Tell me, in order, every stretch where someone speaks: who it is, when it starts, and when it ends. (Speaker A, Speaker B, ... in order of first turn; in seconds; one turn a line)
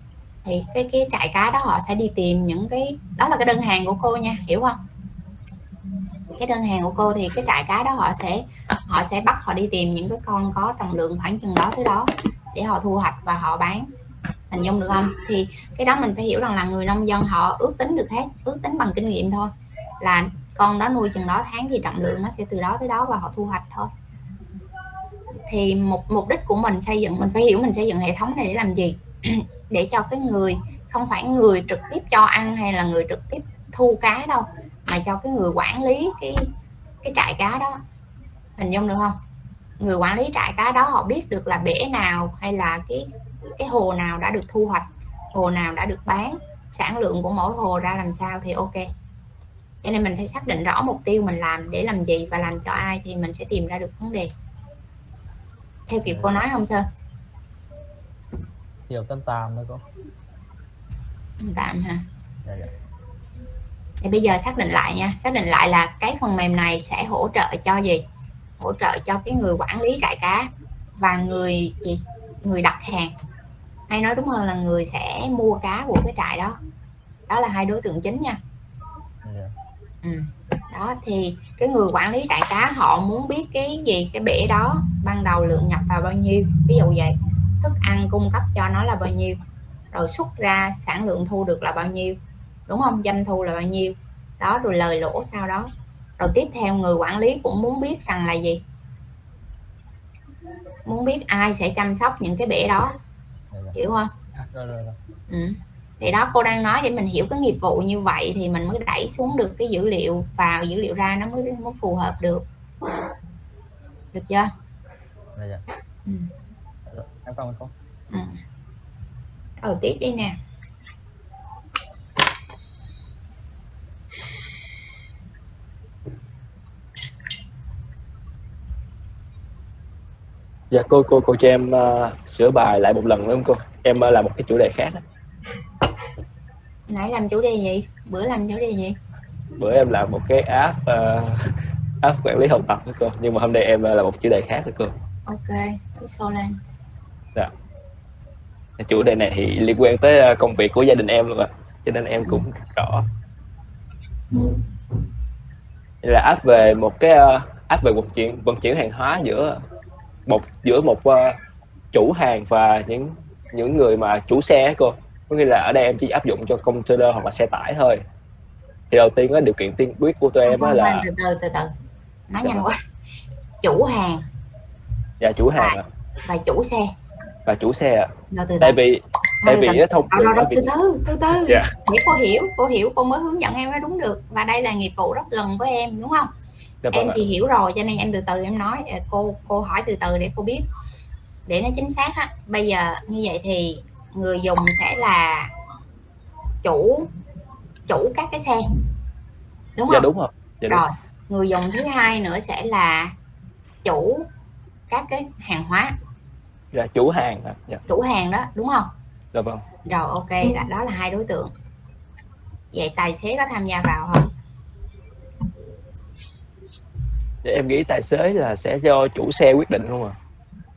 Speaker A: 0.4-4.8
Speaker A: 6.4-13.9
Speaker A: 14.5-23.9
Speaker A: 25.5-36.5
Speaker A: 37.0-37.8
Speaker A: 38.6-39.2
Speaker A: 39.8-48.9
Speaker A: 49.8-54.3
Speaker A: 55.9-56.9
Speaker B: 56.0-56.4
Speaker B: 58.9-59.8
Speaker A: 61.4-62.0
Speaker B: 62.4-62.7
Speaker A: 64.0-68.0
Speaker A: 68.6-73.1
Speaker A: 73.9-76.6
Speaker A: 77.3-78.4
Speaker B: 79.2-79.5
Speaker A: 80.0-89.4
Speaker A: 89.9-92.2
Speaker A: 92.7-98.6
Speaker A: 100.8-103.0
Speaker B: 103.5-103.8
Speaker A: 103.7-104.1
Speaker B: 104.3-105.0
Speaker A: 105.3-112.4
Speaker A: 114.1-114.5
Speaker B: 115.3-115.6
Speaker B: 116.8-117.7
Speaker A: 118.1-118.4
Speaker A: 119.6-120.4
Speaker C: 130.7-135.0
Speaker A: 136.9-138.9
Speaker C: 139.6-144.9
Speaker A: 145.2-146.6
Speaker C: 148.8-153.0
Speaker C: 156.0-159.6
Speaker C: 160.2-161.4
Speaker C: 161.9-168.0
Speaker C: 168.9-171.1
Speaker A: 170.4-171.7
Speaker A: 172.3-172.8
Speaker A: 173.6-174.2
Speaker C: 175.2-175.8
Speaker A: 175.5-176.9
Speaker C: 177.4-180.7
Speaker A: 178.3-178.8
Speaker A: 179.4-186.3
Speaker C: 181.3-181.7
Speaker C: 186.8-187.2
Speaker A: 186.9-190.7
Speaker A: 191.5-195.5
Speaker A: 196.6-197.1
Speaker A: 197.9-198.6
Speaker A: 199.8-200.1
Speaker C: 199.9-200.8
Speaker A: 200.7-203.1
Speaker A: 203.8-204.3
Speaker A: 204.9-205.9
Speaker C: 206.7-207.8
Speaker A: 207.9-208.9
Speaker C: 209.3-209.6
Speaker A: 209.9-211.5
Speaker A: 212.7-214.3
Speaker C: 217.4-220.1